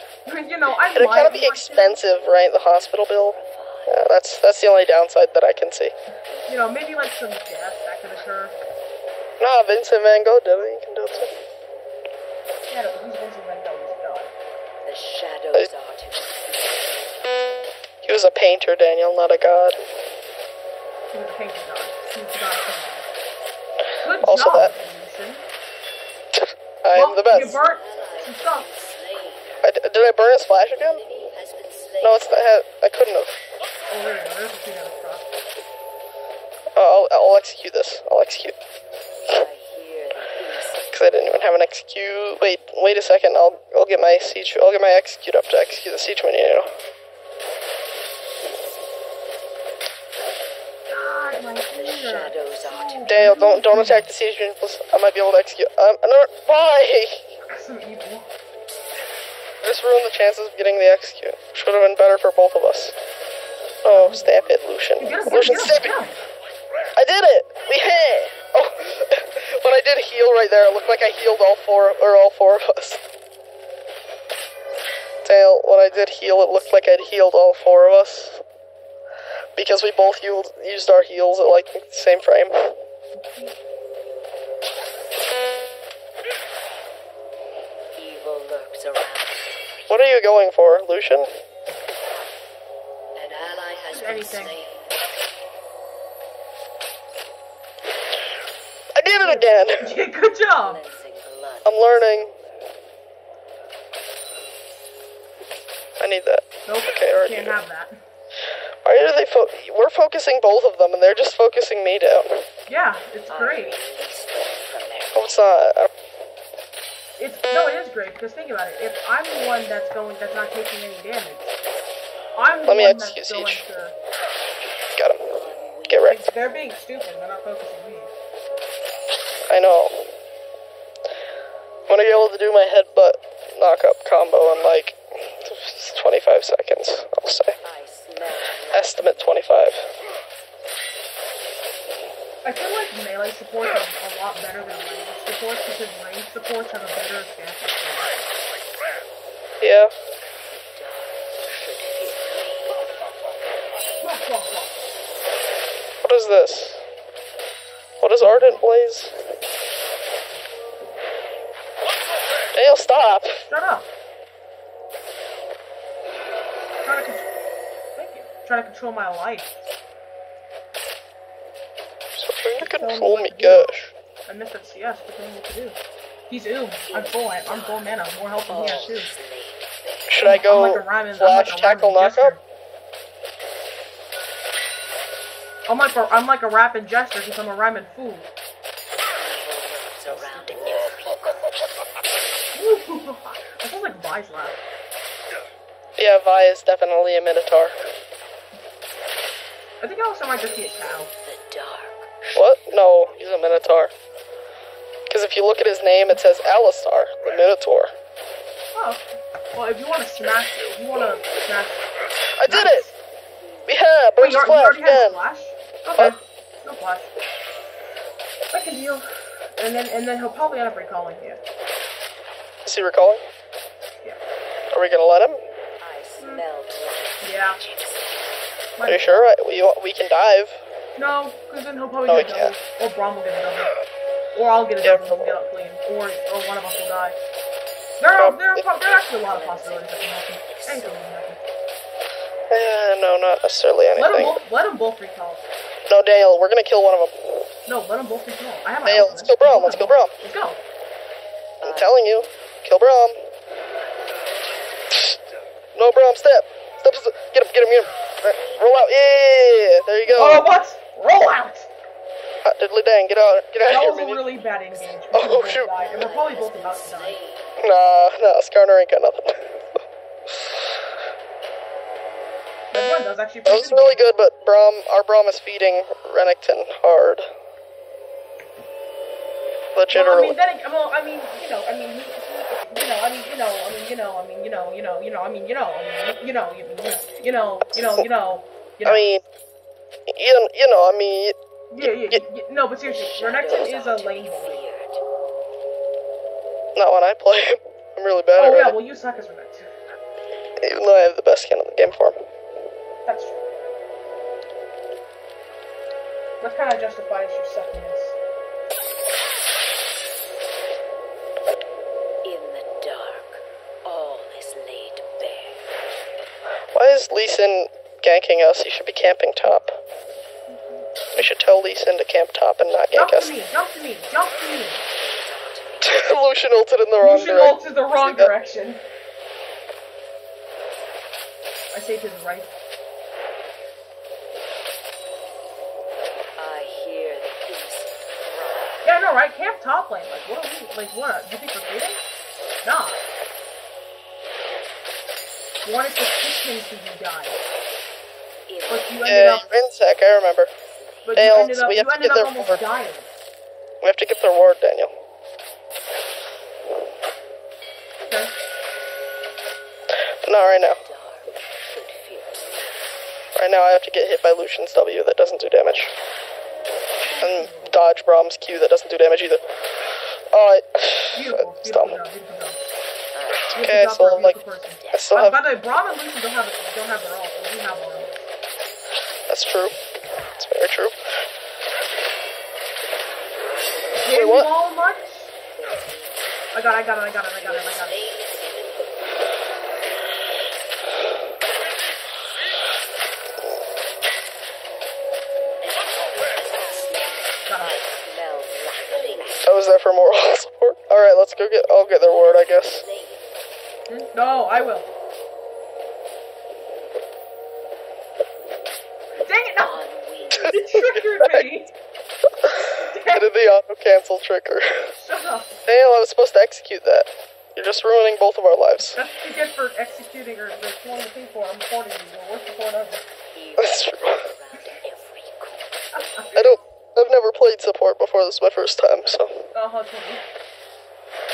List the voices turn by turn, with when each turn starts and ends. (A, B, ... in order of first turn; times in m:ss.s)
0:00.2-0:02.0 A
0:00.9-0:05.9 B
0:02.1-0:04.0 C
0:06.5-0:08.6 A
0:09.4-0:11.3 B
0:12.7-0:14.3 A
0:14.8-0:16.8 C
0:18.0-0:19.8 B
0:21.1-0:23.1 A
0:24.0-0:25.4 A
0:24.2-0:24.7 B
0:26.3-0:27.6 B
0:26.9-0:28.7 A
0:27.3-0:29.6 C
0:29.6-0:31.0 B
0:31.0-0:32.2 C
0:32.0-0:33.3 B
0:33.9-0:35.3 A
0:36.8-0:38.5 B
0:39.3-0:40.9 C
0:40.9-0:46.7 B
0:50.9-0:54.1 A
0:51.7-0:53.2 C
0:53.1-0:57.2 B
0:57.5-0:58.3 A
0:59.6-1:02.9 B
1:03.8-1:05.9 B
1:03.9-1:04.5 A
1:05.0-1:06.2 A
1:07.0-1:13.0 B
1:15.2-1:18.4 B
1:15.9-1:16.2 C
1:19.6-1:22.8 B
1:23.2-1:23.5 A
1:27.9-1:30.1 C
1:29.9-1:31.3 B
1:33.1-1:34.8 C
1:33.9-1:34.6 A
1:38.9-1:39.9 B
1:39.2-1:40.8 A
1:40.5-1:42.6 C
1:41.6-1:42.3 B
1:46.0-1:47.5 B
1:46.6-1:47.9 A
1:48.8-1:52.4 B
1:52.7-1:53.8 A
1:53.3-1:55.4 C
1:55.1-1:55.9 B
1:57.2-2:01.5 A
2:02.4-2:04.0 A
2:02.7-2:03.6 B
2:05.0-2:05.3 B
2:05.3-2:06.2 C
2:05.9-2:06.2 B
2:06.0-2:08.1 A
2:09.5-2:10.1 B
2:11.9-2:17.5 B
2:17.6-2:19.5 C
2:18.7-2:19.8 B
2:22.4-2:28.3 A
2:29.6-2:29.9 B
2:30.5-2:32.8 C
2:34.0-2:34.8 A
2:36.0-2:36.8 B
2:38.0-2:39.1 B
2:38.2-2:38.6 A
2:42.5-2:43.4 B
2:43.5-2:43.9 A
2:46.8-2:47.3 A
2:48.0-2:49.5 A
2:52.2-2:53.9 B
2:52.6-2:53.7 A
2:54.3-2:55.8 A
2:56.3-2:59.1 A
2:56.9-2:57.9 C
2:58.5-3:00.2 C
3:00.1-3:02.3 B
3:00.2-3:02.4 A
3:05.7-3:08.3 A
3:09.2-3:11.4 C
3:10.0-3:10.8 A
3:12.5-3:14.6 A
3:16.0-3:17.7 B
3:19.8-3:21.1 A
3:21.2-3:22.3 C
3:22.3-3:23.9 B
3:25.1-3:27.9 B
3:28.7-3:29.0 A
3:29.5-3:31.8 A
3:32.4-3:32.8 B
3:32.4-3:32.9 A
3:33.4-3:33.7 C
3:33.7-3:35.2 B
3:34.2-3:37.1 A
3:38.5-3:41.4 A
3:42.6-3:43.2 B
3:44.7-3:45.4 B
3:45.8-3:48.2 C
3:47.2-3:47.6 A
3:48.8-3:49.3 A
3:48.8-3:50.6 B
3:51.0-3:53.8 A
3:52.1-3:52.5 B
3:54.3-3:57.2 A
3:54.8-3:55.4 B
3:58.0-4:01.4 A
3:58.1-3:58.7 B
3:59.1-4:01.0 C
4:02.5-4:04.4 B
4:03.9-4:05.4 A
4:05.9-4:07.5 B
4:07.6-4:10.6 A
4:08.8-4:10.1 B
4:11.6-4:12.4 C
4:11.6-4:13.2 B
4:15.7-4:20.4 B
4:18.4-4:18.8 C
4:20.1-4:21.7 A
4:22.4-4:24.2 B
4:23.6-4:27.2 A
4:24.7-4:27.6 C
4:25.1-4:25.7 B
4:27.6-4:29.6 B
4:32.7-4:34.0 A
4:33.4-4:37.2 B
4:39.7-4:40.4 B
4:39.9-4:49.1 A
4:48.8-4:49.2 B
4:50.1-4:52.2 B
4:51.7-4:54.6 A
4:52.9-4:55.0 C
4:56.8-4:58.8 B
4:58.4-4:59.7 A
5:00.6-5:02.2 B
5:03.0-5:03.4 A
5:06.4-5:08.2 A
5:12.2-5:15.6 C
5:16.7-5:19.8 B
5:21.2-5:23.3 B
5:22.9-5:24.8 A
5:24.9-5:26.1 C
5:25.8-5:28.3 B
5:27.0-5:28.8 A
5:31.7-5:32.5 A
5:36.4-5:38.8 C
5:38.8-5:42.0 A
5:42.6-5:43.0 A
5:45.6-5:47.4 A
5:48.5-5:49.1 C
5:48.7-5:49.5 A
5:49.0-5:50.5 B
5:51.0-5:51.3 C
5:51.1-5:53.1 A
5:51.1-5:52.6 B
5:53.8-5:54.9 B
5:58.0-5:58.3 A
6:00.2-6:00.8 B
6:00.8-6:02.9 C
6:03.4-6:05.9 B
6:07.0-6:07.7 A
6:07.2-6:09.4 B
6:10.3-6:12.0 B
6:11.1-6:12.7 A
6:13.1-6:13.7 C
6:13.5-6:14.4 B
6:13.6-6:18.3 A
6:14.8-6:15.2 C
6:14.9-6:15.4 B
6:19.3-6:19.7 B
6:20.4-6:20.9 B
6:24.0-6:25.3 A
6:24.1-6:24.5 B
6:25.5-6:26.7 C
6:26.5-6:28.0 A
6:27.4-6:29.2 C
6:35.6-6:39.6 C
6:37.5-6:37.8 A
6:39.4-6:42.8 B
6:42.6-6:43.2 C
6:43.9-6:44.9 A
6:49.2-6:49.8 A
6:49.6-6:50.7 C
6:50.4-6:51.5 B
6:50.5-6:51.7 A
6:52.4-6:54.9 B
6:52.7-6:53.3 A
6:55.0-6:55.6 A
6:55.6-6:59.0 B
6:58.8-7:03.0 A
7:03.3-7:05.7 C
7:03.6-7:04.2 B
7:05.9-7:06.6 A
7:06.3-7:09.5 B
7:09.5-7:10.2 A